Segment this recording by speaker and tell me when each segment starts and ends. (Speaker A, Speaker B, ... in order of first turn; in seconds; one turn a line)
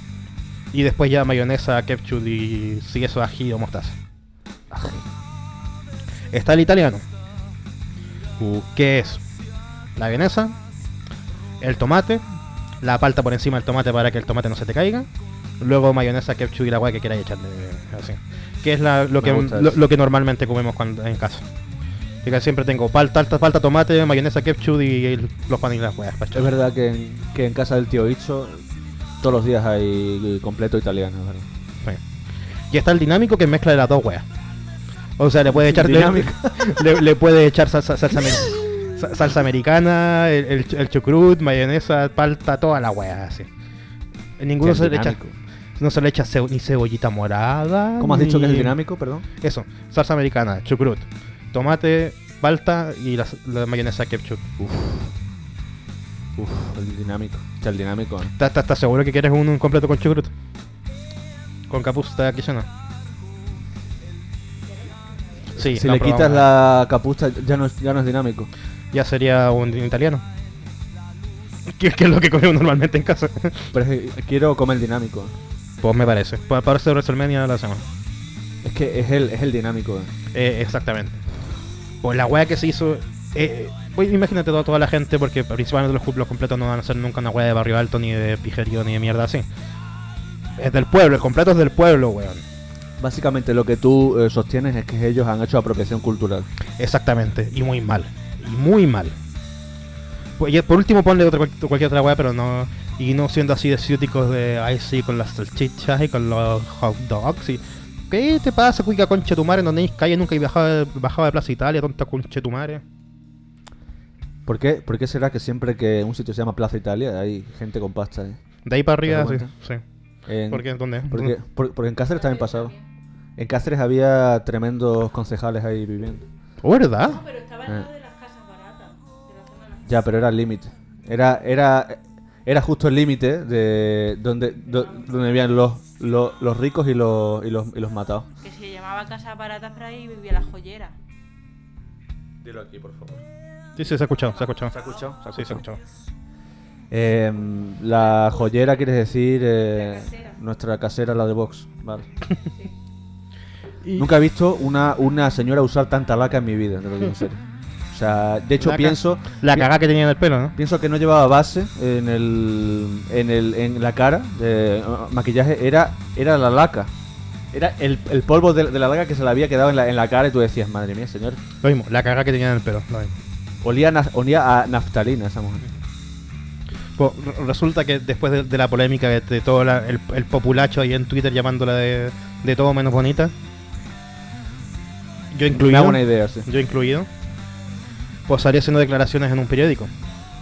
Speaker A: 0.7-4.0
Speaker B: 4.7-5.0
Speaker A: 6.3-7.0
Speaker A: 8.4-9.2
Speaker A: 10.0-10.6
Speaker A: 11.6-12.2
Speaker A: 12.8-15.1
Speaker A: 15.6-21.4
Speaker B: 19.2-19.8
Speaker A: 22.2-26.5
Speaker B: 26.3-28.6
Speaker B: 29.2-31.5
Speaker A: 32.7-34.3
Speaker A: 35.2-43.5
Speaker B: 35.5-36.9
Speaker A: 44.4-45.2
Speaker B: 44.6-45.4
Speaker A: 45.8-48.8
Speaker B: 48.0-49.2
Speaker A: 49.4-54.4
Speaker B: 54.6-55.1
Speaker B: 56.4-58.3
Speaker A: 58.4-60.3
Speaker A: 61.7-62.7
Speaker C: 64.6-65.5
Speaker A: 65.5-66.5
Speaker B: 65.6-68.5
Speaker A: 68.9-70.2
Speaker A: 71.7-73.7
Speaker B: 73.7-75.3
Speaker A: 75.8-77.8
Speaker B: 78.6-80.1
Speaker A: 80.3-81.2
Speaker A: 82.0-89.5
Speaker A: 90.6-92.4
Speaker B: 93.0-96.5
Speaker A: 96.8-99.2
Speaker A: 100.4-112.8
Speaker B: 114.5-118.4
Speaker A: 118.7-119.8
Speaker B: 119.0-119.5
Speaker B: 120.3-122.7
Speaker A: 120.5-121.3
Speaker C: 122.1-122.8
Speaker B: 123.4-126.3
Speaker A: 126.6-127.2
Speaker C: 127.1-129.9
Speaker B: 129.8-138.3
Speaker C: 138.4-140.9
Speaker B: 142.4-143.2
Speaker A: 143.8-144.7
Speaker B: 144.7-145.6
Speaker A: 145.2-145.8
Speaker B: 146.9-152.1
Speaker A: 153.8-154.1
Speaker B: 154.0-159.7
Speaker A: 158.6-160.6
Speaker B: 160.6-166.9
Speaker B: 167.5-171.4
Speaker A: 171.6-173.2
Speaker B: 173.6-175.7
Speaker A: 177.0-183.3
Speaker A: 185.3-187.1
Speaker B: 185.5-186.5
Speaker A: 188.3-189.9